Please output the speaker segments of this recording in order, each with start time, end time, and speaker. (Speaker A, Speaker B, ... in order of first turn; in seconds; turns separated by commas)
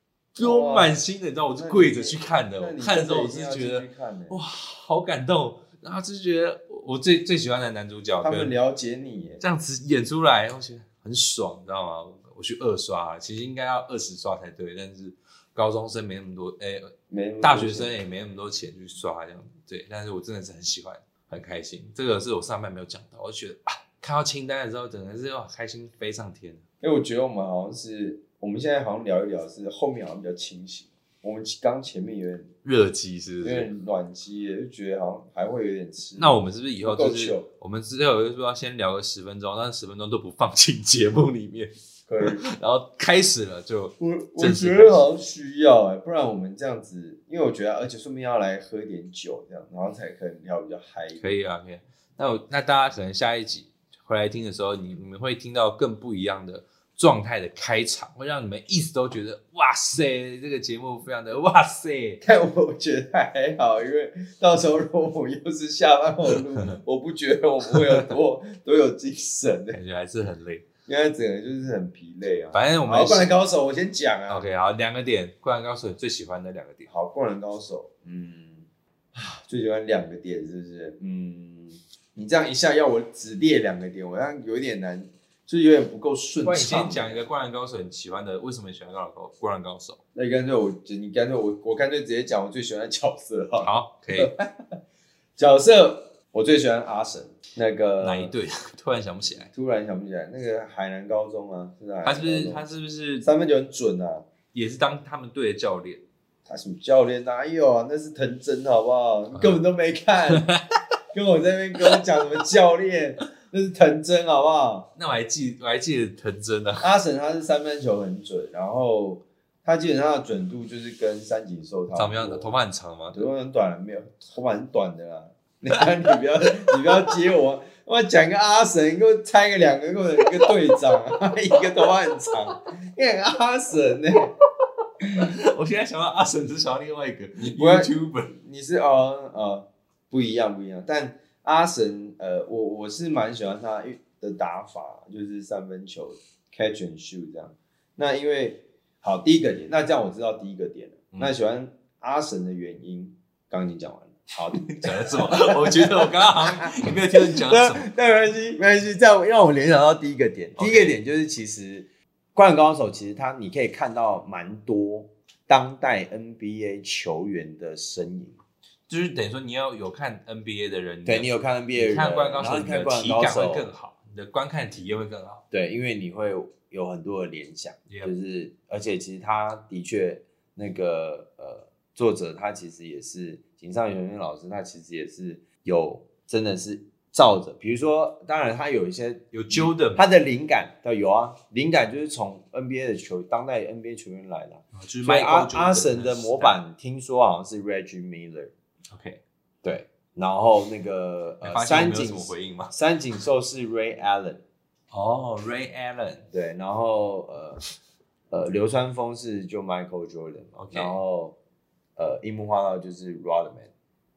Speaker A: 0.3-8.5, Speaker B: 0.4-1.0, Speaker B: 1.6-4.4, Speaker B: 8.2-9.4, Speaker A: 9.4-26.6, Speaker B: 17.1-17.9, Speaker B: 26.8-32.5, Speaker A: 32.6-33.7, Speaker B: 33.4-37.5, Speaker A: 36.2-45.0, Speaker B: 42.1-42.4, Speaker B: 44.0-51.2, Speaker A: 51.2-62.2, Speaker B: 62.2-69.8, Speaker A: 69.7-70.7, Speaker B: 70.9-74.5, Speaker A: 72.5-73.4, Speaker A: 74.3-76.9, Speaker B: 76.9-87.3, Speaker A: 86.4-90.0, Speaker B: 90.1-94.5, Speaker A: 93.6-94.3, Speaker B: 95.4-98.3, Speaker A: 98.0-99.5, Speaker B: 99.5-102.6, Speaker A: 102.0-103.3, Speaker B: 103.2-104.3, Speaker A: 104.5-106.0, Speaker B: 106.5-110.5, Speaker A: 109.3-109.6, Speaker A: 110.3-110.6, Speaker B: 111.1-114.9, Speaker A: 115.0-116.9, Speaker B: 116.8-122.5, Speaker A: 121.9-123.2, Speaker B: 123.1-134.3, Speaker A: 130.2-130.6, Speaker A: 135.2-138.3, Speaker B: 137.4-168.4, Speaker A: 154.5-157.9, Speaker A: 160.6-160.9, Speaker A: 168.9-175.4, Speaker B: 171.1-173.7, Speaker B: 175.5-198.5, Speaker A: 189.3-190.0, Speaker A: 194.7-196.6, Speaker A: 198.9-199.2, Speaker B: 199.6-204.4, Speaker A: 201.4-202.7, Speaker A: 204.9-206.3, Speaker B: 206.3-207.6, Speaker B: 208.3-211.4, Speaker A: 210.6-211.0, Speaker B: 212.0-213.7